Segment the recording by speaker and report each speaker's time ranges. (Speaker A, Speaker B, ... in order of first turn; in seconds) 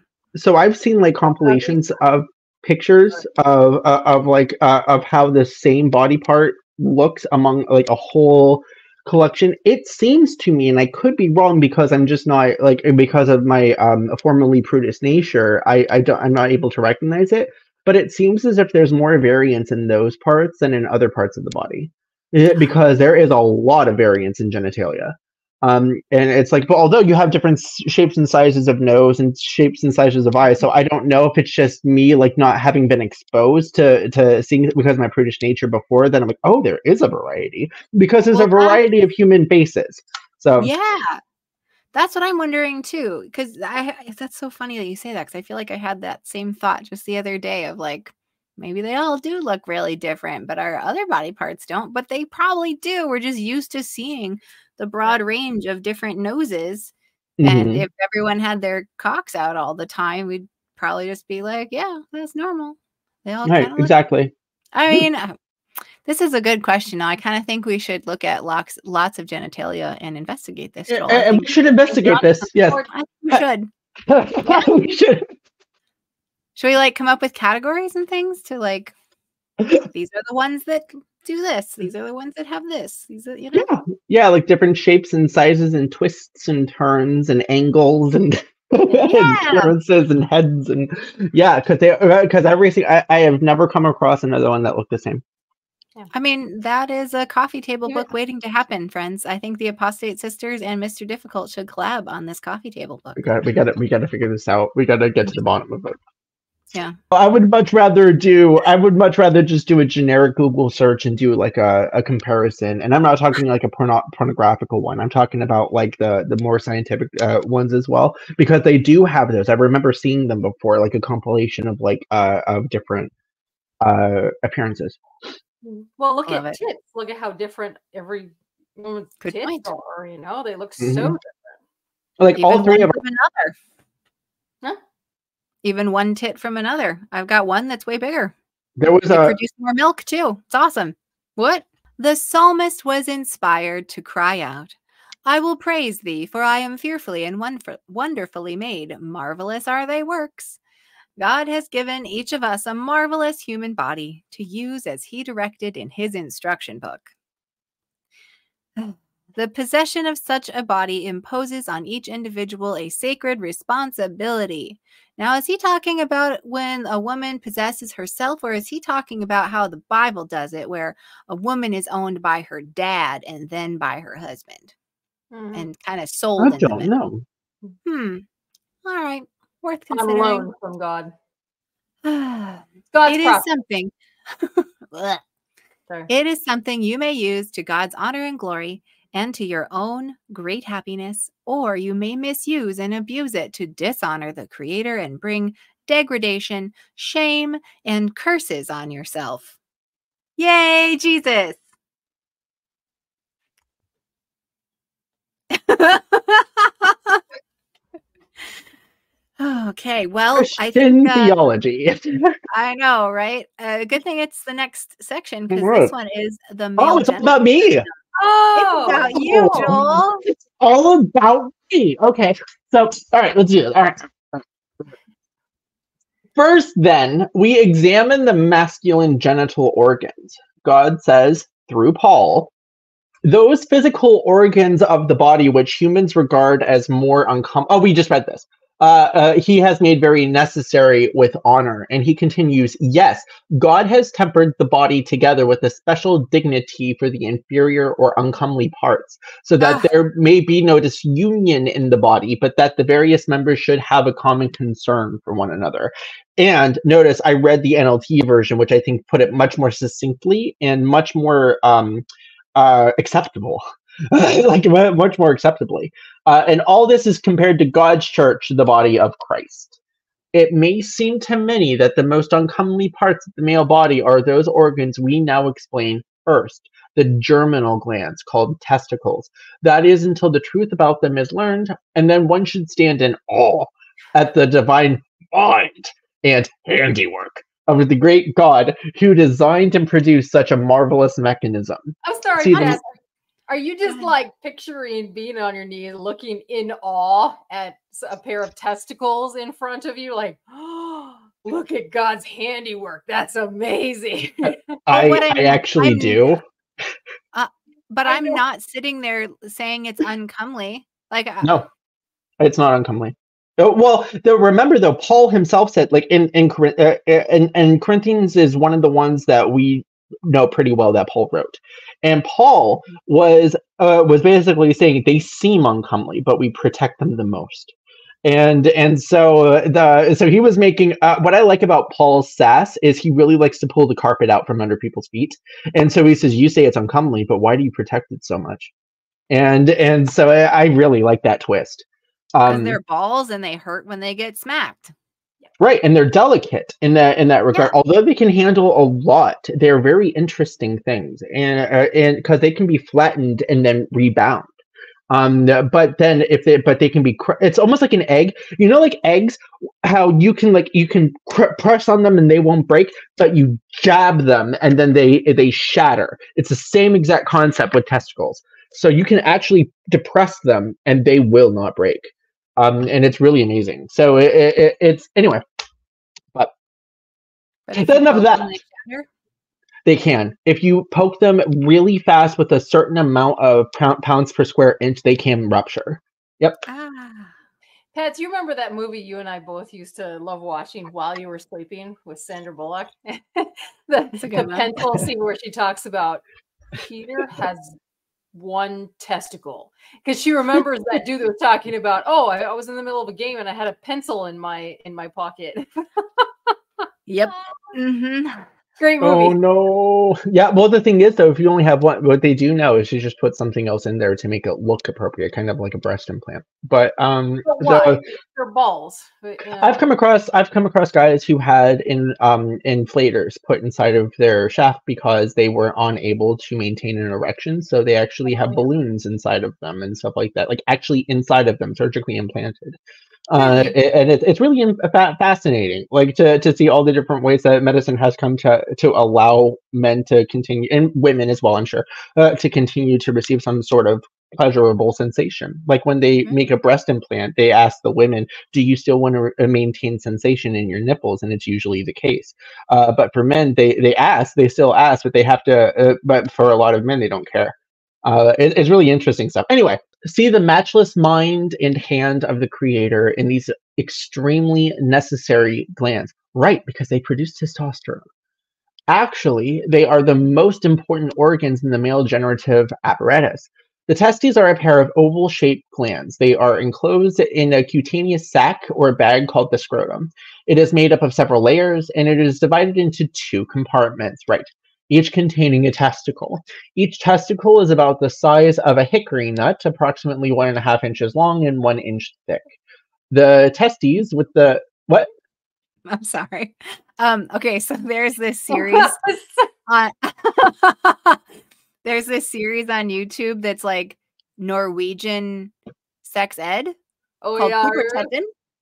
Speaker A: 0.3-40.7, 57.4-57.9, 63.5-64.3, 70.9-73.4, 74.1-75.3, 83.5-95.2, 103.2-106.0, 107.1-123.1, 123.8-125.0, 130.8-131.2, 132.2-133.0, 138.8-139.3, 176.4-177.2, 210.3-212.3, 215.5-215.9, 216.8-217.9, 219.1-224.4, 226.3-232.5, 233.2-269.8, 270.3-292.8, 304.9-306.4, 311.4-311.7, 312.4-327.7, 328.2-338.7, 339.3-342.8, 345.6-354.5, 355.1-375.4, 377.7-378.5, 379.8-386.6, 409.0-418.0, 419.6-432.8, 433.3-468.0, 468.9-492.5, 493.1-495.1
Speaker B: 38.3-38.8, 40.5-41.2, 41.9-56.9, 57.4-63.9, 64.7-65.4, 66.0-72.2, 72.9-73.7, 74.4-74.8, 76.5-78.9, 79.9-83.7, 88.9-89.7, 96.1-103.3, 126.2-126.6, 129.2-129.7, 132.3-133.6, 135.6-138.3, 139.1-150.6, 151.2-157.1, 158.8-174.7, 175.5-176.9, 177.8-178.2, 178.8-180.5, 182.0-185.2, 186.1-199.5, 200.4-201.6, 205.5-207.2, 209.4-211.4, 212.5-217.4, 218.5-220.2, 304.9-306.3, 307.3-311.5, 342.4-344.9, 377.7-379.1, 386.7-387.3, 394.2-394.7, 407.1-408.4, 495.9-499.0, 499.7-501.2, 501.8-506.8, 507.4-508.3
Speaker C: 72.0-72.9, 125.6-131.6, 175.3-175.7, 179.9-181.1, 182.9-183.4, 218.1-219.7, 292.0-292.9, 293.5-304.7, 308.0-308.4, 387.9-396.2, 396.8-397.8, 398.3-406.5, 408.8-409.4, 417.4-419.8, 428.2-428.6, 433.4-433.7, 498.5-499.4, 507.2-508.1